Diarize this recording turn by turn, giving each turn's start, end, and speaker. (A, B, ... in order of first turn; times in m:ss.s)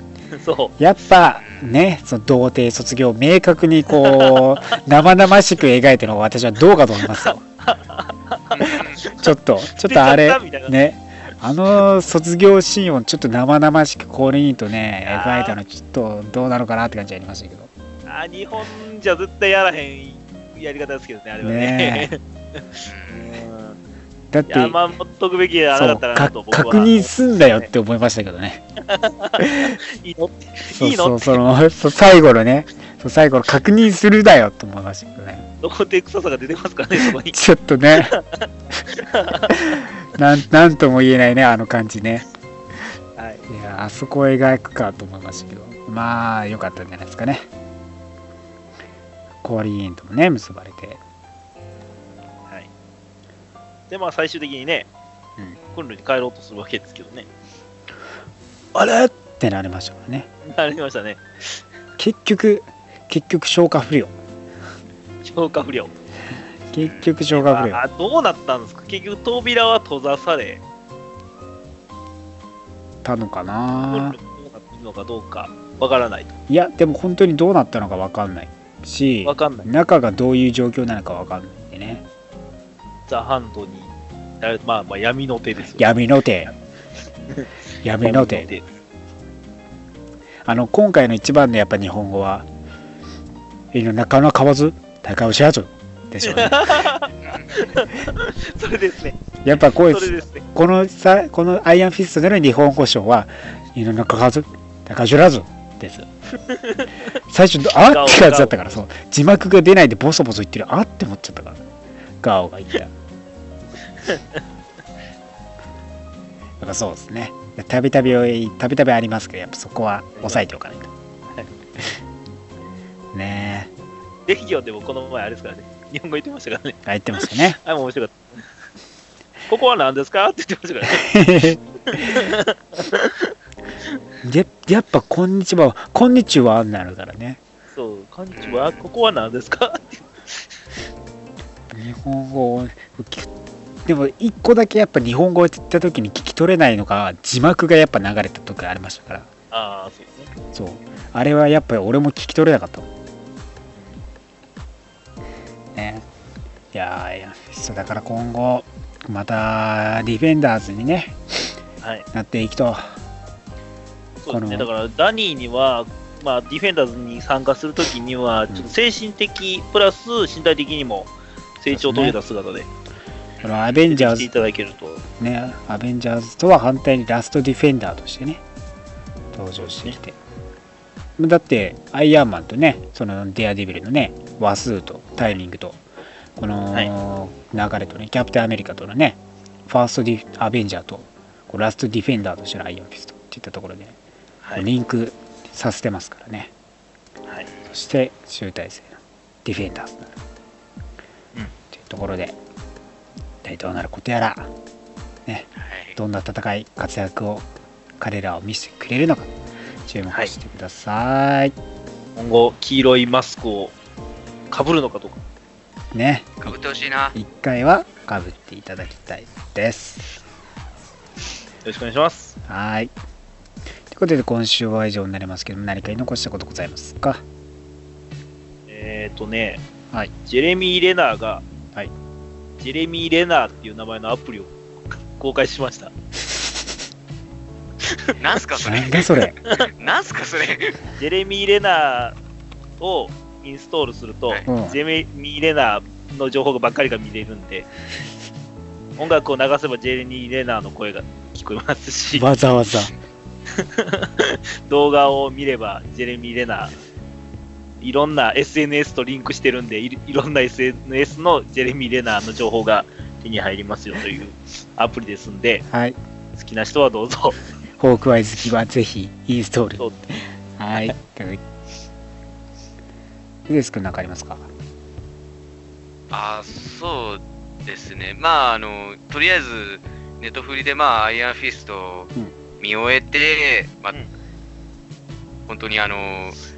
0:00.3-0:00.7 A
0:00.8-0:07.4 B
0:01.4-0:01.6 C
0:04.0-0:04.5 A
0:07.1-0:10.8 A
0:08.6-0:09.0 C
0:08.6-0:17.7 B
0:15.0-0:15.6 A
0:18.1-0:23.8 A
0:21.4-0:22.1 B
0:22.8-0:23.3 C
0:24.3-0:24.8 B
0:24.5-0:27.7 A
0:25.7-0:28.6 B
0:28.8-0:31.4 A
0:29.4-0:29.8 B
0:30.7-0:35.5 B
0:35.6-0:37.4 A
0:37.2-0:38.1 B
0:38.0-0:39.8 A
0:39.5-0:42.2 B
0:43.2-0:43.4 A
0:43.5-0:47.4 B
0:49.4-0:51.0 B
0:53.9-0:54.9 A
0:55.7-0:57.3 A
0:58.7-1:00.3 B
1:00.4-1:01.6 A
1:02.0-1:04.2 B
1:05.2-1:05.9 A
1:06.7-1:07.8 B
1:07.3-1:10.6 A
1:13.0-1:14.2 B
1:13.8-1:16.3 A
1:16.5-1:22.0 B
1:19.2-1:19.7 A
1:23.1-1:25.9 A
1:25.8-1:26.5 B
1:27.8-1:28.5 B
1:28.0-1:28.6 A
1:30.4-1:32.5 B
1:33.7-1:36.9 B
1:36.2-1:40.4 A
1:37.2-1:37.6 C
1:39.4-1:46.1 B
1:46.5-1:47.1 A
1:47.3-1:51.6 B
1:47.8-1:48.8 A
1:52.2-1:52.9 B
1:54.0-1:54.4 A
1:56.6-2:00.9 B
2:00.2-2:00.5 A
2:03.1-2:03.7 B
2:04.3-2:08.4 A
2:06.8-2:07.6 B
2:09.5-2:11.2 A
2:11.0-2:12.2 B
2:11.9-2:13.3 A
2:14.2-2:17.4 B
2:17.7-2:20.5 A
2:18.3-2:18.8 C
2:21.7-2:23.3 B
2:23.8-2:29.3 B
2:29.5-2:30.3 A
2:30.5-2:32.9 B
2:33.8-2:34.0 A
2:35.7-2:36.0 B
2:36.7-2:41.4 B
2:42.1-2:43.0 B
2:44.2-2:52.7 A
2:44.3-2:44.7 B
2:51.7-2:52.2 B
2:53.4-2:53.7 C
2:53.4-2:54.3 B
2:53.9-2:55.0 A
2:55.2-2:58.4 B
2:59.3-3:00.2 B
3:01.2-3:05.8 B
3:06.4-3:14.0 B
3:14.6-3:16.5 B
3:17.7-3:20.1 B
3:21.7-3:22.4 B
3:23.4-3:24.5 B
3:25.2-3:27.4 B
3:25.6-3:26.0 C
3:28.0-3:29.3 B
3:29.8-3:31.5 B
3:32.2-3:33.7 A
3:34.5-3:35.2 A
3:35.9-3:36.6 B
3:36.4-3:37.1 C
3:37.1-3:40.1 B
3:41.6-3:42.4 A
3:42.5-3:42.9 B
3:43.9-3:47.2 B
3:48.7-3:49.6 A
3:50.2-3:51.4 A
3:52.6-3:55.9 A
3:58.2-4:00.8 C
3:58.6-3:59.4 B
4:01.0-4:02.2 A
4:02.8-4:07.7 A
4:04.4-4:04.8 B
4:09.0-4:12.3 A
4:12.2-4:12.9 B
4:13.6-4:16.7 A
4:17.8-4:25.6 A
4:25.7-4:26.0 B
4:26.4-4:27.4 A
4:27.8-4:29.9 B
4:30.6-4:31.4 B
4:33.5-4:34.5 B
4:36.1-4:44.0 C
4:45.5-4:46.4 C